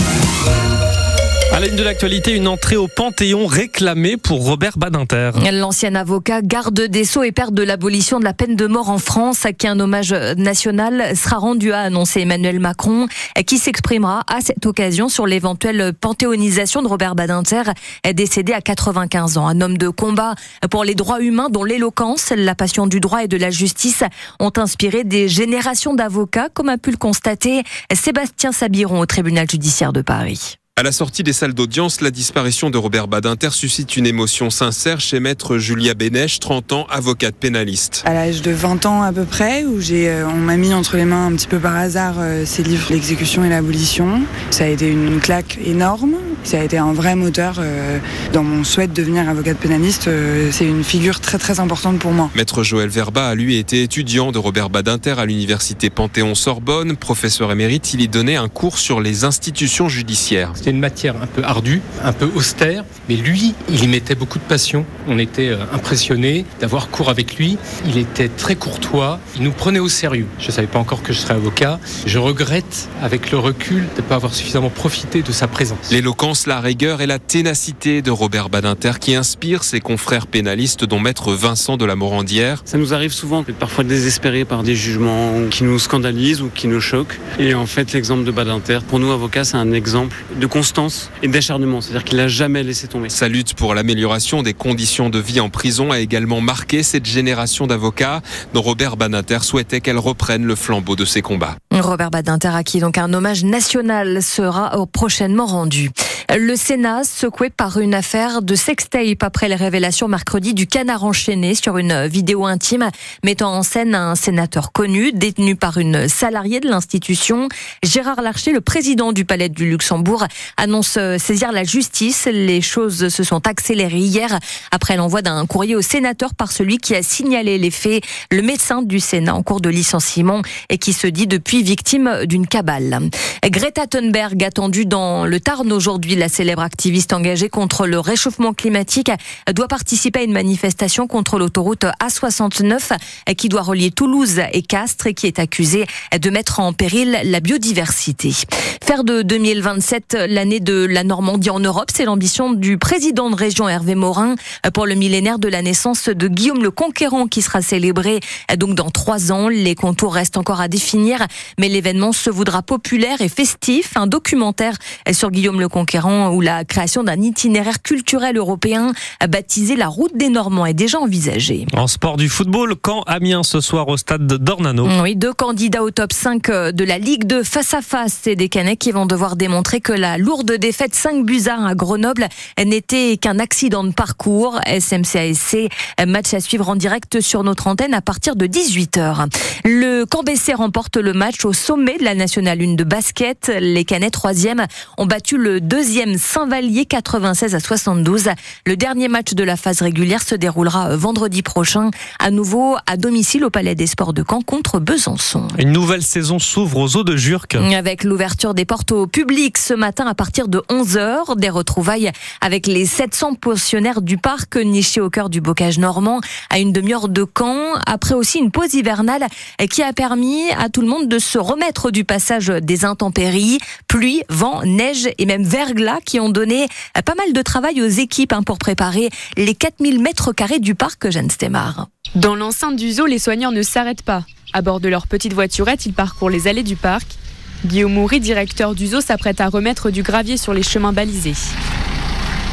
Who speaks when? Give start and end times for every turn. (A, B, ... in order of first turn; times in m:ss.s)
0:01.5-0:05.4 A
0:05.4-0:30.6 B
0:30.8-0:38.0 C
0:38.0-0:52.3 D
0:52.3-1:00.6 C
1:00.6-1:16.0 E
1:15.9-1:22.6 C
1:22.7-1:33.2 F
1:33.1-1:41.6 C
1:41.7-2:51.7 B
2:51.7-2:54.9 A
2:54.8-3:25.6 B
3:25.6-3:27.7 A
3:27.6-3:51.9 B
3:52.2-4:01.5 G